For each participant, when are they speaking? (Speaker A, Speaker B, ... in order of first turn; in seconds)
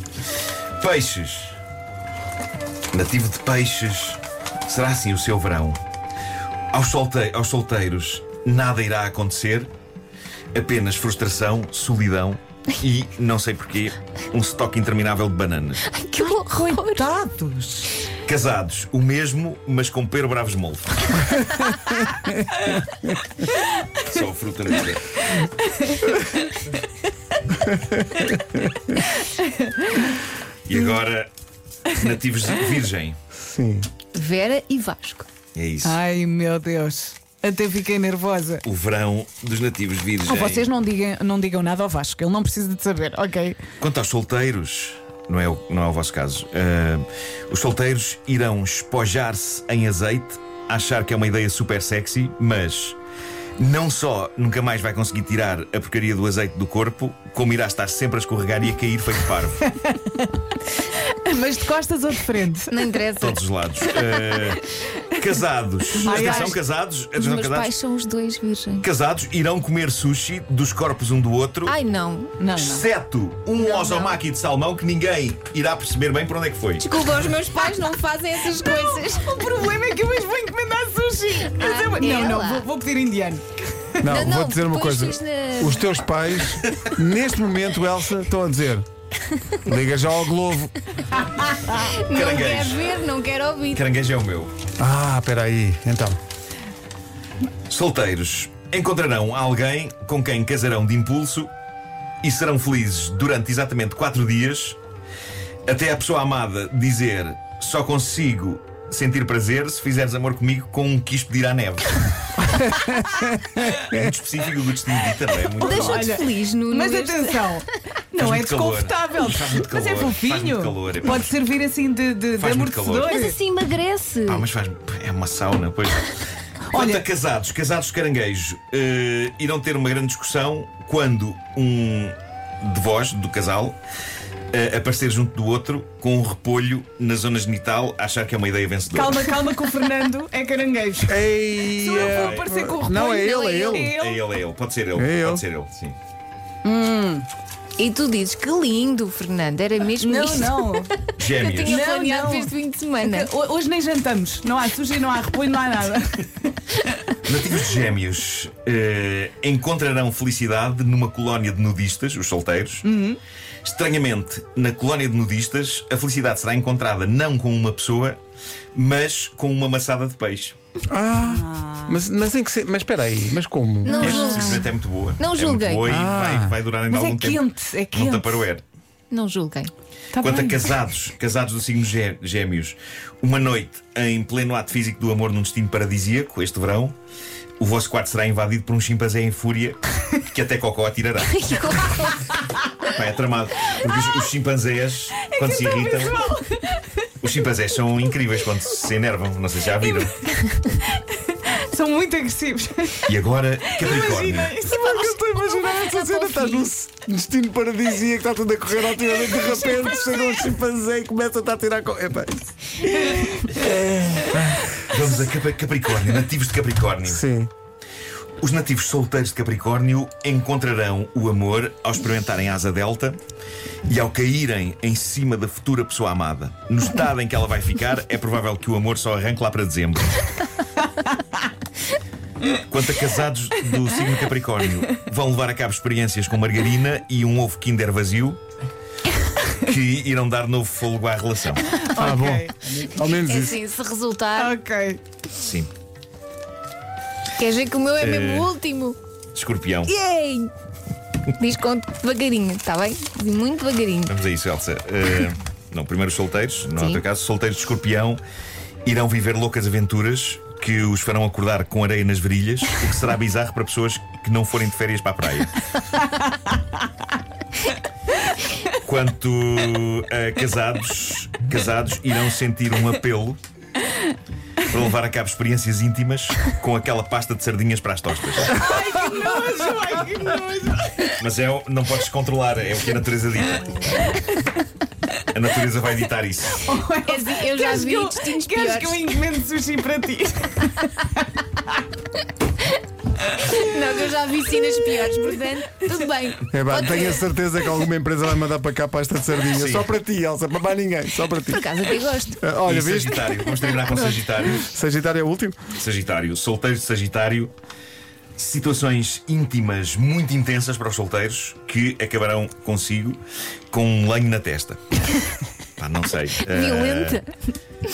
Speaker A: 0.8-1.6, 2.9-5.8, 6.7-9.7, 10.5-15.8, 18.2-21.1, 23.9-25.2, 30.6-31.3, 31.9-33.2, 35.5-36.0, 38.6-40.6, 43.8-53.0, 53.6-59.6, 63.2-67.8, 68.8-71.7, 72.6-76.8, 86.6-86.9, 92.1-92.9, 93.7-94.5, 97.7-101.5, 102.2-104.8, 105.7-112.0, 113.7-116.1, 118.2-121.3, 122.3-123.1, 124.3-126.1, 126.7-133.8, 134.5-139.3, 141.9-142.5, 143.7-146.0, 151.2-151.8, 157.2-162.8, 163.6-168.2, 168.7-170.6, 174.0-178.6, 180.2-186.9, 187.6-191.4, 192.8-196.2, 197.2-200.3, 203.1-204.6, 214.3-217.2, 218.4-223.2, 223.9-230.2, 232.5-238.4, 239.5-241.7, 245.3-245.7, 248.0-248.5, 249.3-249.9, 254.1-258.2, 258.8-265.6, 268.7-273.4, 274.6-278.6, 281.2-284.1, 285.3-286.6, 299.5-299.9, 302.6-304.7, 305.7-307.5, 308.4-315.0, 315.8-317.2
Speaker B: 15.8-17.1, 34.1-35.3, 62.7-63.4, 66.0-66.5, 67.2-68.8, 71.7-72.3, 73.6-74.2, 76.8-79.4, 81.5-82.7, 84.0-85.9, 91.7-93.8, 115.5-117.7, 123.0-124.5, 147.8-153.3, 173.8-174.6, 175.2-175.9, 179.1-179.7, 191.3-192.3, 205.5-206.7, 242.9-244.5, 247.4-249.0, 249.8-250.5, 251.4-254.1, 256.8-257.0, 287.0-289.1, 293.5-297.2, 301.4-302.5, 303.3-303.7, 316.4-317.3
Speaker C: 16.2-17.9, 25.4-26.5, 29.1-30.1, 35.8-38.6, 40.2-43.6, 59.8-60.2, 61.2-63.0, 66.0-66.6, 72.4-72.8, 78.4-83.4, 115.6-123.4, 126.7-127.0, 138.9-144.2, 146.6-147.3, 150.0-150.9, 151.6-156.8, 162.8-163.2, 171.2-172.0, 173.9-174.6, 176.9-178.5, 180.1-180.7, 195.3-196.9, 201.1-203.1, 203.7-205.2, 209.6-210.4, 213.0-213.3, 241.7-242.5, 244.3-245.0, 278.5-281.2, 286.6-291.2
Speaker D: 27.7-27.9, 33.4-33.9, 84.0-88.8, 89.6-90.7, 94.8-96.2, 112.5-114.1, 141.1-143.9, 144.9-145.4, 170.9-174.2, 175.8-176.6, 204.6-213.2, 217.1-217.5, 242.0-243.6, 296.5-301.7, 302.4-303.3, 304.5-305.6